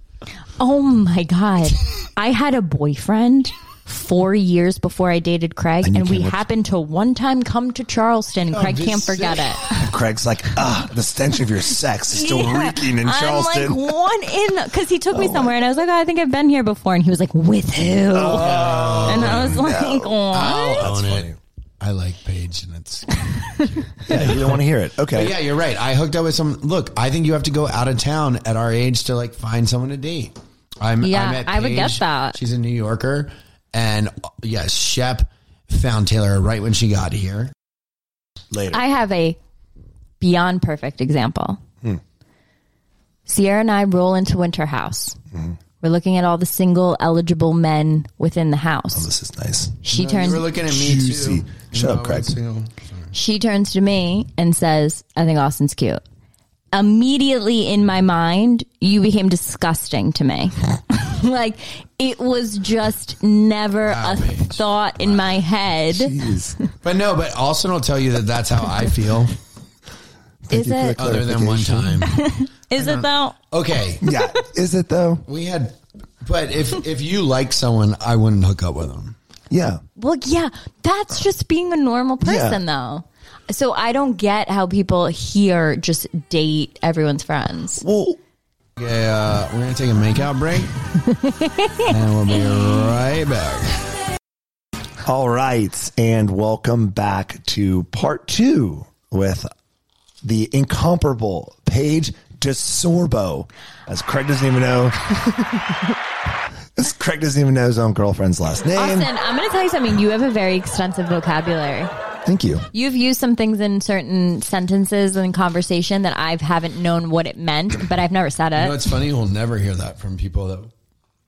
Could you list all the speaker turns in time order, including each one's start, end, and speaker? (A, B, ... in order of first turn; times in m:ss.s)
0:00.6-0:09.8 A
0:05.8-0:06.4 B
0:08.5-0:09.7 C
0:09.8-0:13.9 B
0:12.1-0:18.5 A
0:15.1-0:15.5 B
0:18.1-0:21.4 B
0:18.3-0:19.6 C
0:19.1-0:20.8 A
0:20.3-0:37.5 C
0:24.1-0:25.4 B
0:31.0-0:32.4 A
0:38.5-0:38.8 B
0:38.7-0:39.4 A
0:40.2-0:41.6 A
0:43.3-0:45.2 A
0:45.8-0:49.1 A
0:48.9-0:49.8 B
0:49.8-0:50.4 A
0:49.9-0:53.1 C
0:50.6-0:52.3 B
0:53.1-0:56.0 A
0:56.7-1:06.2 A
1:03.8-1:04.6 C
1:05.9-1:06.6 B
1:06.8-1:09.4 C
1:10.5-1:12.0 B
1:10.5-1:11.0 A
1:11.0-1:12.2 C
1:12.1-1:13.3 A
1:12.8-1:14.0 C
1:14.0-1:15.2 B
1:15.2-1:19.2 C
1:19.5-1:19.8 B
1:20.0-1:27.8 A
1:22.2-1:22.6 B
1:27.8-1:28.2 B
1:28.8-1:30.8 C
1:31.1-1:31.9 A
1:31.8-1:33.9 C
1:35.0-1:39.5 B
1:40.2-1:45.6 B
1:46.8-1:49.1 B
1:48.8-1:51.9 A
1:52.2-1:52.7 B
1:52.7-1:58.8 A
1:58.6-2:00.7 C